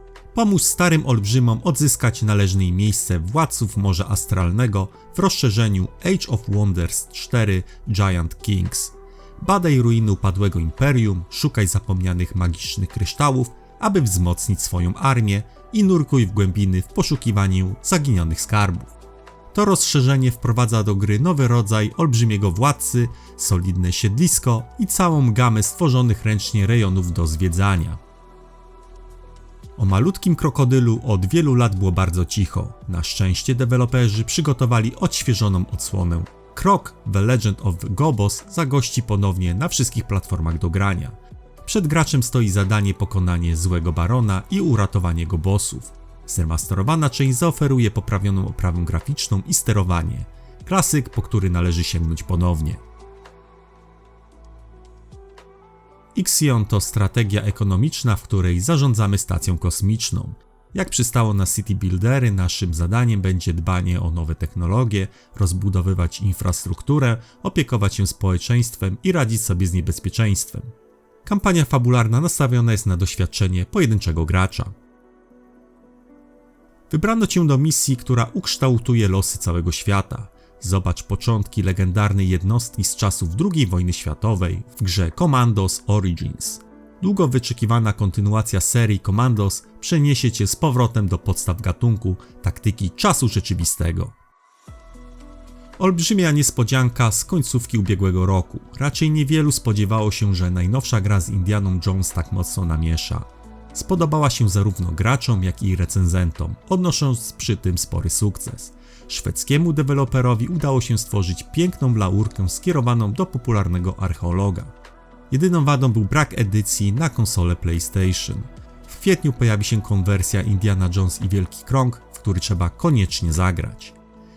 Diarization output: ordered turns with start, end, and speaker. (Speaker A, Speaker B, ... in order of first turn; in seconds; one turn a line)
Speaker A: 0.3-18.9
Speaker A: 19.5-28.0
Speaker A: 29.8-52.8
Speaker A: 56.1-70.7
Speaker A: 71.2-74.8
Speaker A: 76.9-94.2
Speaker A: 95.8-114.7
Speaker A: 115.3-124.0